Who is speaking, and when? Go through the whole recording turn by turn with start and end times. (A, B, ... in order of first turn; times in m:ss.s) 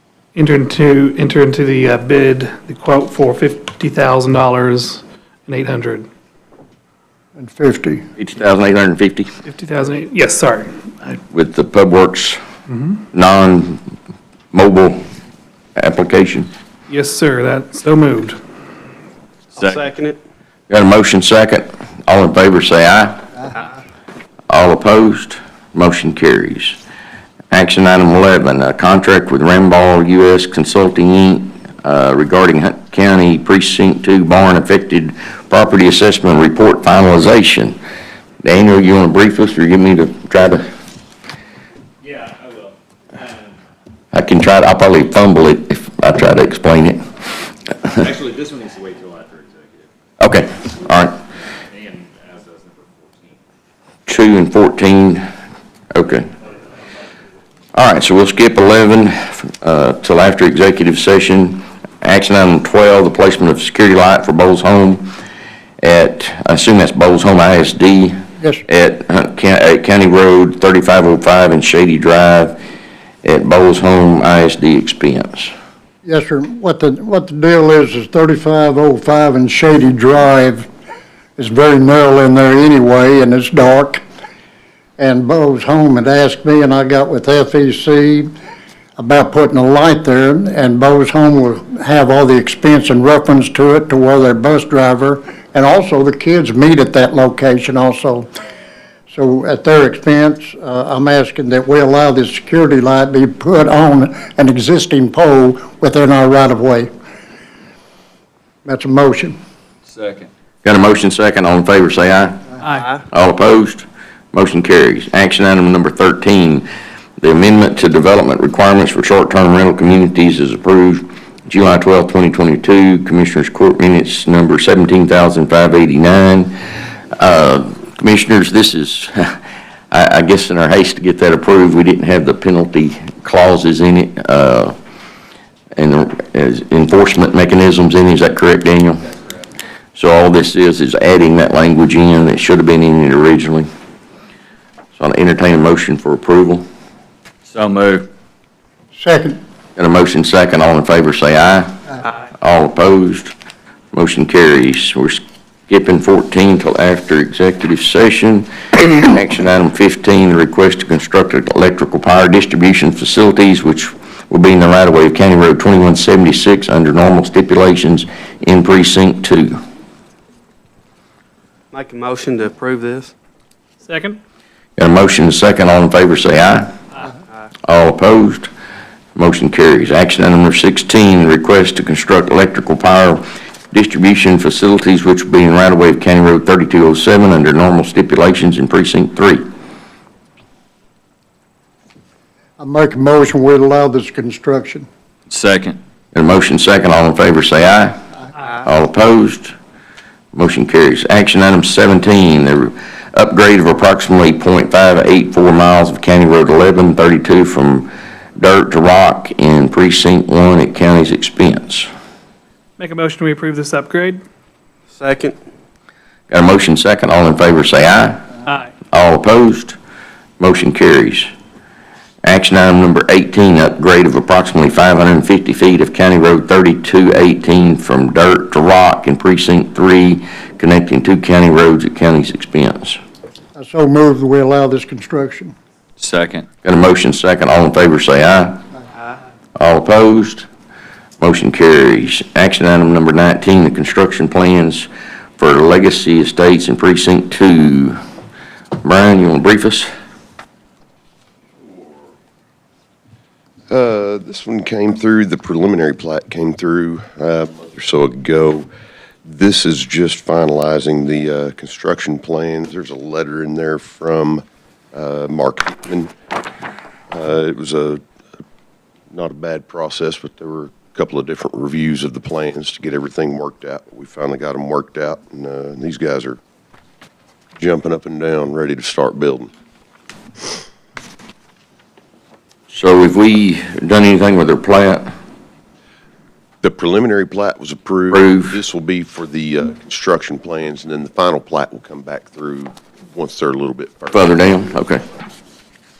0:00.3-0:06.1 A
0:07.4-0:08.0 B
0:08.2-0:09.3 C
0:09.4-0:11.1 A
0:11.3-0:12.4 C
0:13.1-0:13.8 C
0:14.5-0:15.0 C
0:15.8-0:16.5 C
0:16.9-0:18.4 A
0:19.6-0:19.9 D
0:19.7-0:20.2 E
0:20.7-0:23.2 C
0:24.5-0:26.8 C
0:27.5-0:37.8 C
0:38.4-0:40.6 C
0:42.0-0:43.5 D
0:44.1-0:47.0 C
0:47.9-0:49.9 D
0:50.2-0:51.2 C
0:51.7-0:53.4 D
0:54.1-0:55.2 C
0:55.9-0:56.3 C
0:57.7-1:05.1 C
1:05.8-1:12.6 C
1:13.2-1:15.5 C
1:16.0-1:20.7 B
1:21.4-1:24.0 B
1:25.0-1:28.3 B
1:29.0-1:38.3 B
1:39.1-1:46.9 B
1:48.6-1:49.4 B
1:49.9-1:50.3 D
1:50.6-1:52.4 C
1:52.6-1:52.9 A
1:53.1-1:56.6 C
1:57.2-2:06.5 C
2:07.2-2:09.4 C
2:09.9-2:14.7 C
2:15.8-2:19.0 C
2:19.9-2:23.7 C
2:25.0-2:26.6 C
2:27.5-2:28.1 D
2:28.9-2:29.4 B
2:29.8-2:31.7 C
2:32.4-2:33.3 C
2:33.9-2:49.6 C
2:51.7-2:53.1 E
2:53.8-2:54.2 A
2:54.8-2:56.7 C
2:57.6-2:58.5 C
2:59.1-3:09.4 C
3:12.6-3:14.9 B
3:15.3-3:15.8 D
3:16.1-3:18.0 C
3:18.6-3:19.5 C
3:20.3-3:31.9 C
3:32.8-3:34.2 A
3:34.9-3:35.4 E
3:36.3-3:38.2 C
3:38.9-3:39.8 C
3:40.4-3:41.3 C
3:42.2-3:53.0 C
3:53.5-3:55.5 B
3:56.0-3:56.4 D
3:56.6-3:58.6 C
3:59.6-4:00.5 C
4:01.2-4:08.0 C
4:08.8-4:09.9 C
4:13.7-4:18.7 F
4:19.2-4:26.1 F
4:27.1-4:28.0 F
4:29.1-4:36.4 F
4:37.6-4:39.5 F
4:42.7-4:45.1 C
4:46.6-4:54.3 F
4:48.1-4:48.6 C
4:54.1-4:55.0 C